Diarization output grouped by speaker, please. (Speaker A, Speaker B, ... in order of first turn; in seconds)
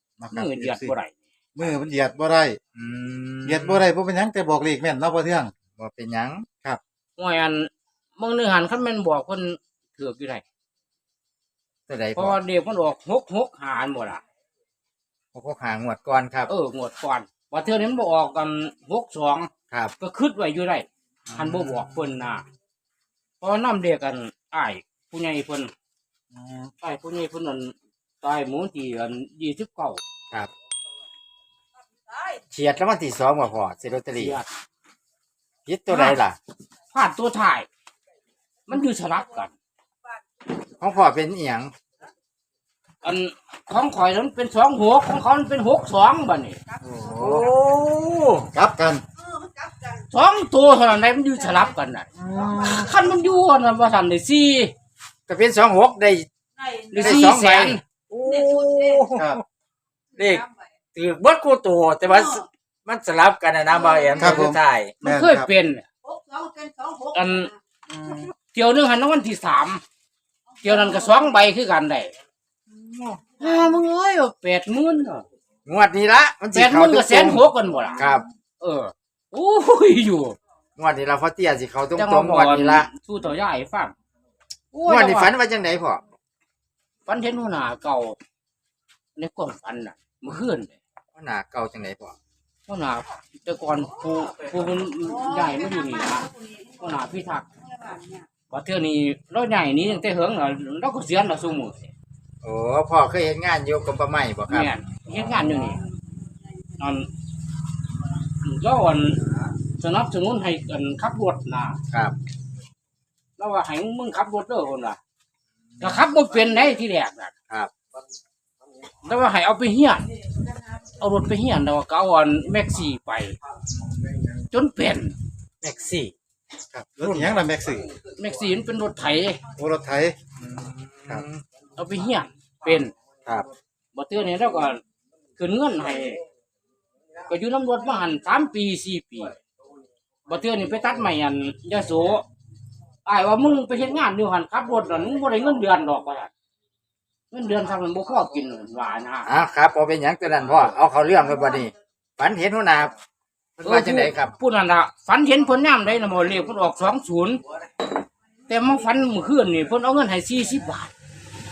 Speaker A: 0.2-0.9, 1.6-2.6, 3.5-5.5, 26.4-26.7, 48.5-49.0, 52.2-52.9, 59.1-59.4, 64.2-65.5, 126.7-127.9, 129.6-130.2
Speaker B: 0.3-1.1, 7.2-10.4, 12.2-14.2, 16.5-22.4, 23.4-25.7, 26.8-30.0, 34.2-34.5, 35.9-36.2, 36.9-37.7, 38.7-39.5, 43.0-46.6, 50.1-52.1, 52.7-54.7, 56.9-57.8, 65.0-65.9, 67.1-67.5, 68.5-69.8, 70.6-72.1, 73.4-75.2, 76.5-78.1, 78.6-80.4, 81.9-83.9, 84.7-85.3, 87.0-88.2, 89.2-90.7, 92.7-97.5, 98.5-101.9, 104.5-105.8, 106.8-107.1, 108.4-109.2, 109.8-111.8, 113.4-115.0, 115.8-117.3, 119.0-120.1, 121.0-123.4, 124.5-125.1, 128.2-129.4, 131.8-132.9, 133.9-134.8, 135.4-136.2, 137.3-139.3, 140.3-142.2, 143.1-146.3, 147.3-149.3, 153.6-157.4, 158.5-160.9
Speaker C: 2.8-3.9, 5.8-6.5, 11.9-12.4, 15.3-16.5, 32.5-34.3, 35.6-36.4, 40.8-41.7, 46.8-48.5, 55.3-56.3, 57.0-59.4, 60.2-64.9, 75.7-77.4, 78.0-78.2, 80.8-82.9, 84.9-86.0, 91.1-92.1, 102.4-104.7, 111.9-112.2, 125.6-126.1, 130.4-131.4, 149.3-152.9, 153.6-154.3